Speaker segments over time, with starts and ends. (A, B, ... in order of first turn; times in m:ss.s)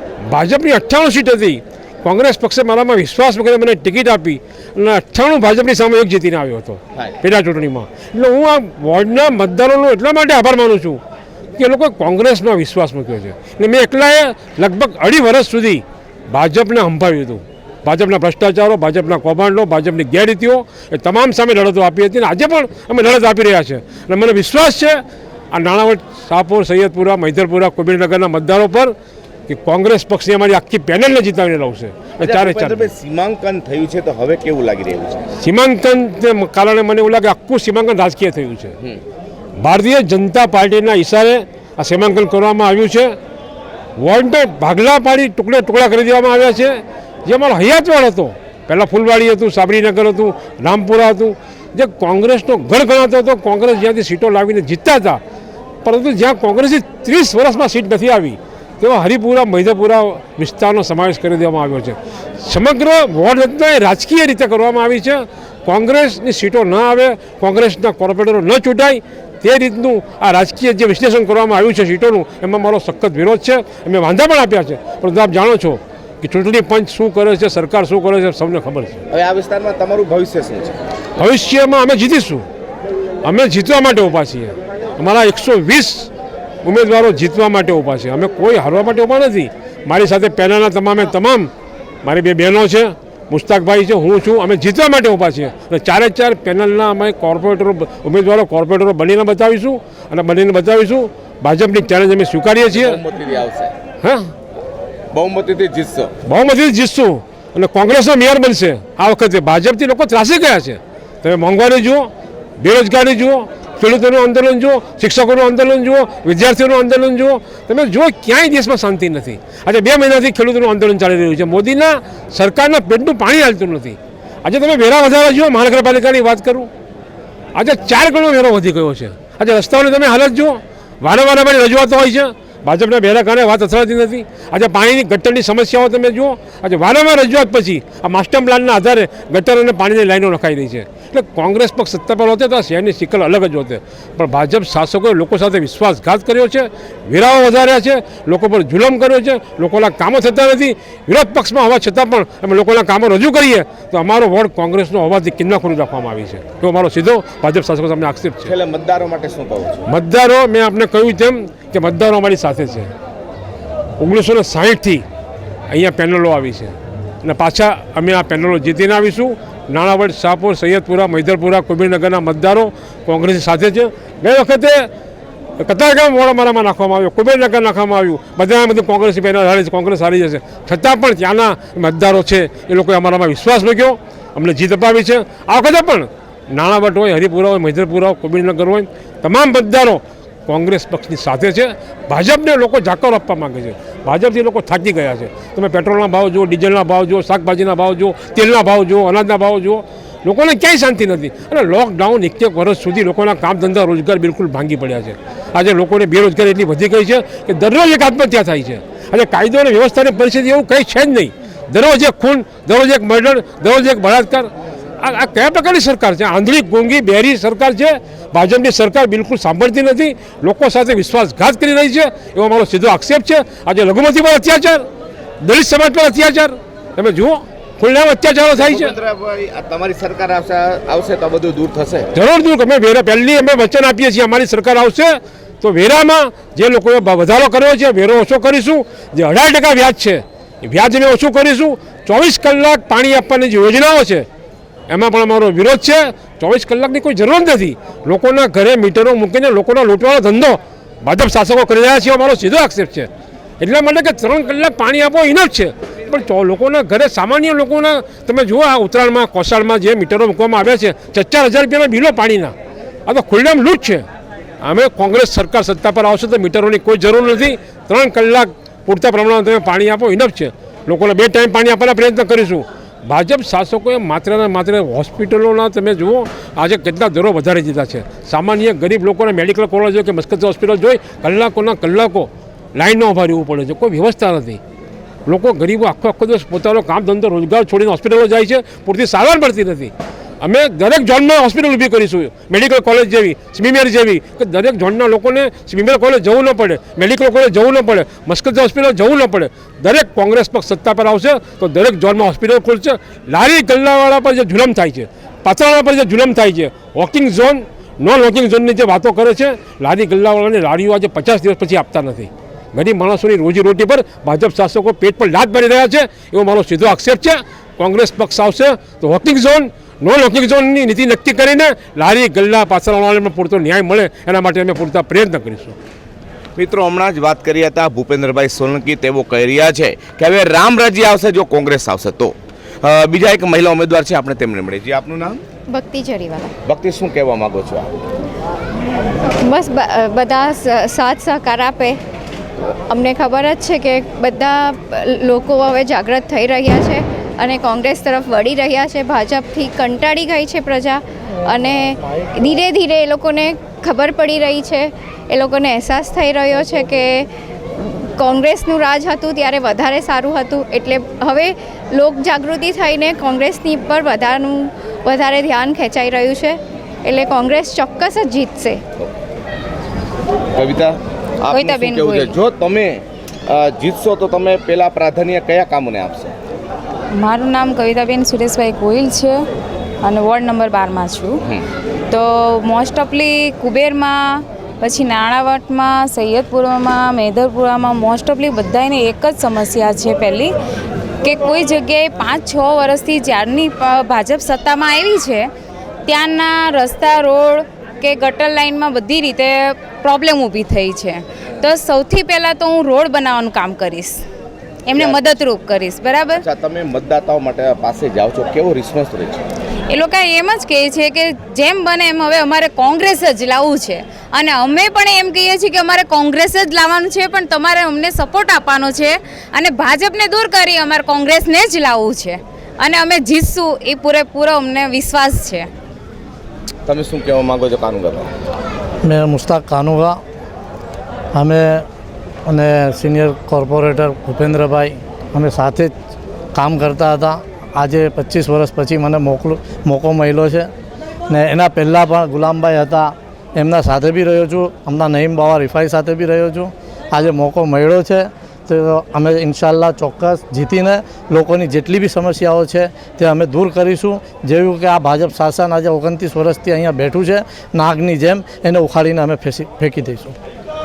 0:00.3-0:11.0 A
0:11.6-0:25.0 A
0:25.5-0:28.9 A
0:29.5-0:32.9 A
0:32.2-0:35.2 B
0:35.4-0:38.8 A
0:39.6-0:43.1 A
0:44.0-0:55.2 A
0:55.8-1:19.0 A
1:19.1-1:20.8 B
1:21.2-1:22.4 A
1:23.2-1:26.1 A
1:26.6-1:31.5 A
1:32.0-1:43.0 A
1:42.7-1:43.7 B
1:44.0-1:44.3 A
1:45.1-1:46.1 B
1:46.2-2:06.7 A
2:07.5-2:38.5 A
2:38.4-2:39.8 B
2:39.9-2:42.9 A
2:44.0-2:45.0 A
2:45.7-2:54.9 A
2:55.6-3:44.8 A
3:45.4-3:48.9 A
3:48.5-3:52.1 B
3:52.2-4:04.2 A
4:04.9-4:13.1 A
4:13.6-4:22.5 A
4:23.0-4:24.0 A
4:24.6-4:44.6 A
4:45.3-5:25.8 A
5:26.6-5:35.4 B
5:35.7-5:36.5 C
5:36.6-5:37.9 B
5:39.4-5:42.0 C
5:42.9-6:08.8 C
6:10.5-6:16.3 B
6:11.5-6:12.3 D
6:17.2-6:19.4 D
6:20.0-6:21.3 D
6:22.1-6:30.5 D
6:31.2-6:35.5 D
6:36.1-6:44.2 D
6:44.9-6:46.4 D
6:44.9-6:45.3 B
6:46.4-6:49.4 B
6:49.9-7:05.7 D
7:06.9-7:08.3 B
7:09.0-7:10.2 E
7:11.4-7:11.8 E
7:12.5-7:15.9 E
7:16.6-7:20.7 E
7:21.3-7:40.3 E